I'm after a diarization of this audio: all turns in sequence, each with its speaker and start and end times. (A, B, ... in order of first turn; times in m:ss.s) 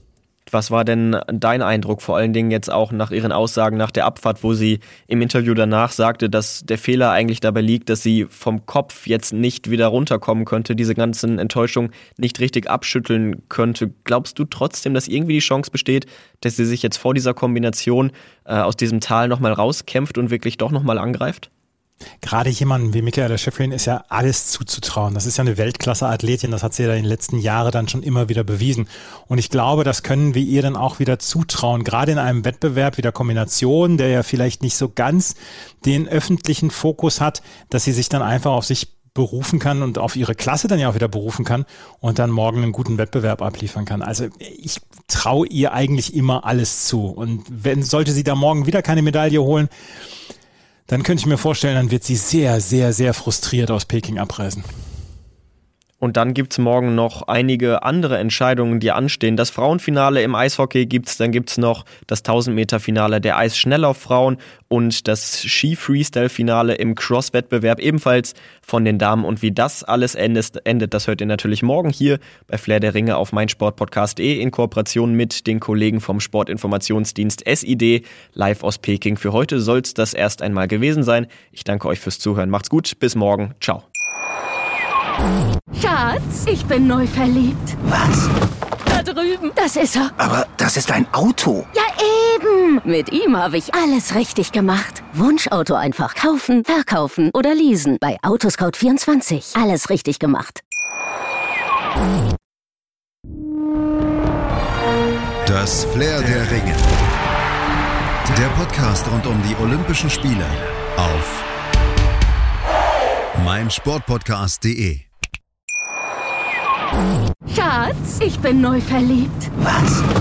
0:00.5-0:21.5 A
0:22.2-0:49.7 B
0:50.9-0:54.6 B
0:56.0-1:23.8 A
1:25.7-1:27.8 C
1:27.8-1:28.3 D
1:28.8-1:30.1 C
1:30.2-1:31.7 D
1:31.7-1:40.6 C
1:45.4-1:46.9 E
1:48.3-1:51.4 E
1:53.3-1:55.1 E
1:57.4-1:59.5 C
1:59.6-2:00.0 D